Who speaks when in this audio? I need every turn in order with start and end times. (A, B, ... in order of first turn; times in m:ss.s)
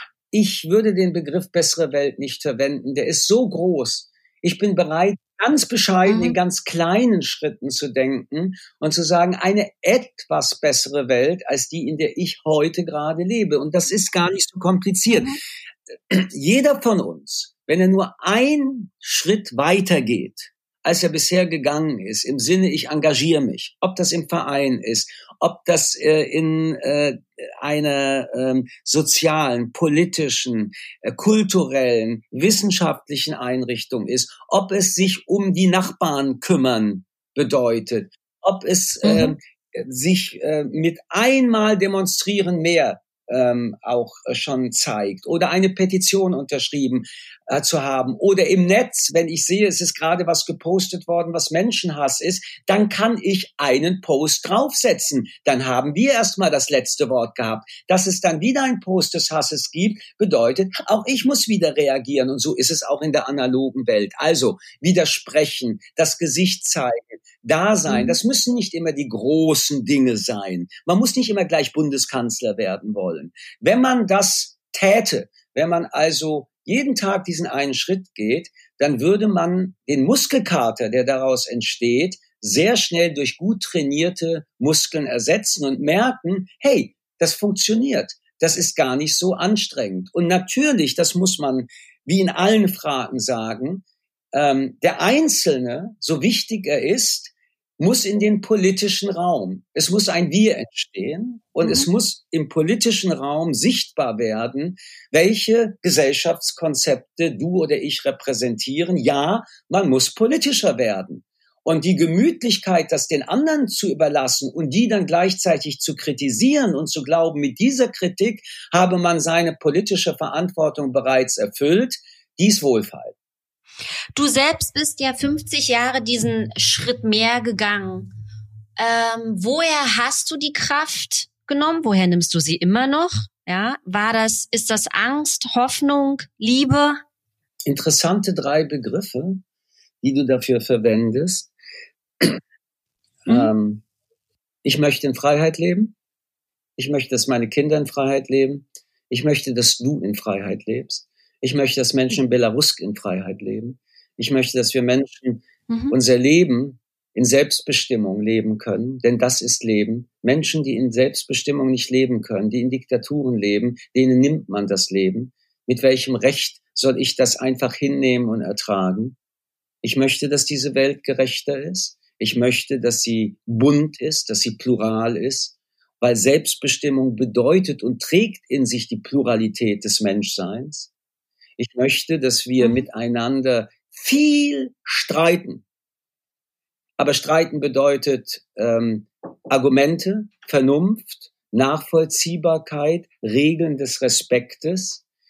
0:00.3-0:15.3 A
0:06.1-0:06.4 B
0:15.1-0:15.4 B
0:16.1-2:03.2 A
0:39.0-0:39.4 B
1:07.9-1:08.2 B
1:41.6-1:41.9 B
2:04.2-2:08.1 B
2:08.8-2:17.0 B
2:17.7-2:19.4 A
2:20.0-2:21.5 A
2:23.2-2:23.8 A
2:24.6-2:25.9 A
2:26.8-2:49.2 A
2:35.7-2:36.0 B
2:49.8-3:00.9 A
3:01.6-3:05.6 A
3:02.6-3:02.8 B
3:07.0-3:15.0 A